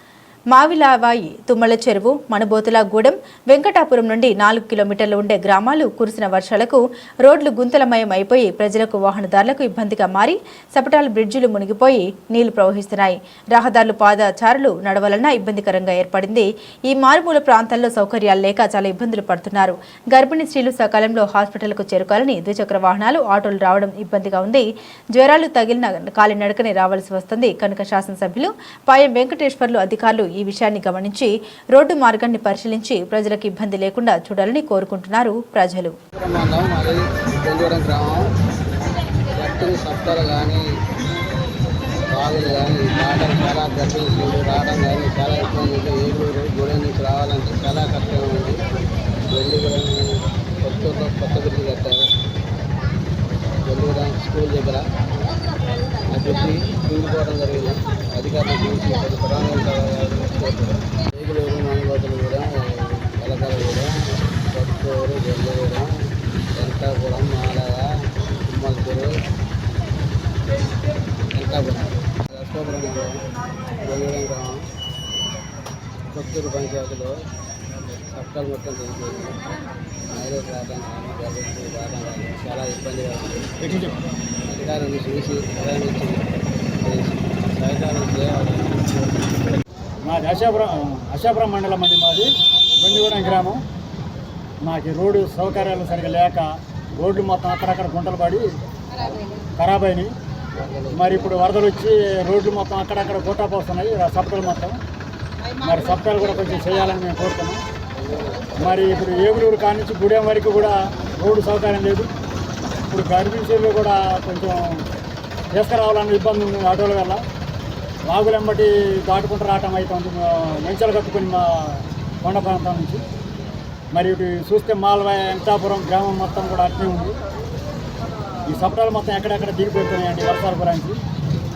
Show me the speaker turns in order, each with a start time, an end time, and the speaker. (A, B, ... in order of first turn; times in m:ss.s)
0:00.5-0:35.9 A
0:36.1-0:38.2 B
0:39.4-0:40.6 B
0:42.1-0:48.6 B
0:49.3-0:52.1 B
0:53.6-0:54.8 B
0:56.1-1:03.9 B
1:04.5-1:05.9 B
1:06.6-1:07.9 B
1:08.5-1:09.1 B
1:11.3-1:13.2 B
1:13.8-1:14.6 B
1:16.1-1:17.1 B
1:18.1-1:19.4 B
1:20.1-1:23.6 B
1:23.6-1:24.0 C
1:24.5-1:26.2 B
1:26.8-1:29.1 B
1:30.0-1:33.6 C
1:34.6-1:38.4 C
1:38.9-1:39.4 B
1:39.6-1:40.1 C
1:40.6-1:41.6 B
1:40.9-1:44.8 C
1:45.6-1:47.6 C
1:48.0-1:48.9 B
1:48.6-1:52.1 C
1:52.9-1:54.8 C
1:55.5-1:57.2 C
1:58.1-2:03.0 C
2:03.9-2:07.1 C
2:08.5-2:11.0 C